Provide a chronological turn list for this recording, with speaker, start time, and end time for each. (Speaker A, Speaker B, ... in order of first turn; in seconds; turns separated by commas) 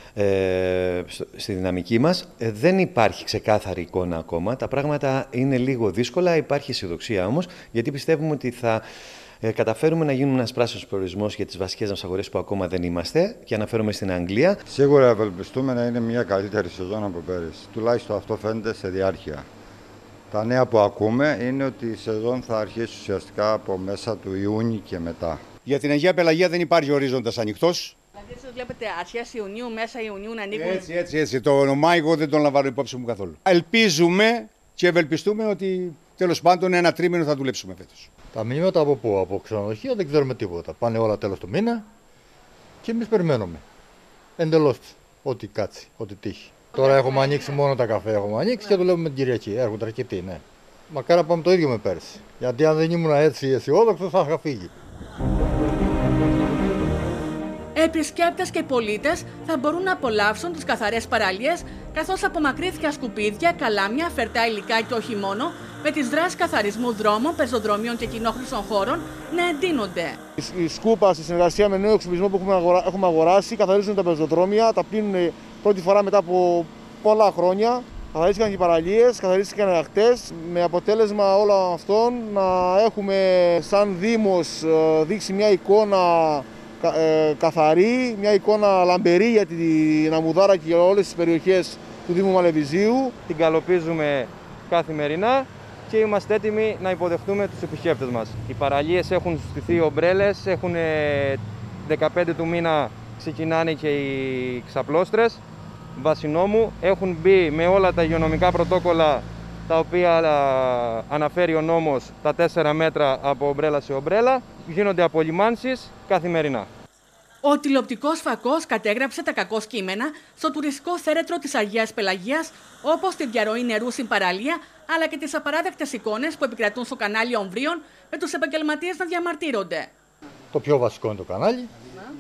Speaker A: 0.2-8.8, Speaker A: 9.4-14.6, Speaker B: 14.7-19.5, Speaker B: 20.3-25.4, Speaker C: 25.6-27.9, Speaker D: 28.2-30.9, Speaker C: 30.5-38.1, Speaker E: 38.3-41.9, Speaker E: 42.8-43.6, Speaker E: 44.4-54.7, Speaker D: 57.8-70.2, Speaker F: 70.4-93.1, Speaker G: 93.3-105.4, Speaker G: 106.0-116.7, Speaker D: 117.4-129.9, Speaker E: 130.5-131.7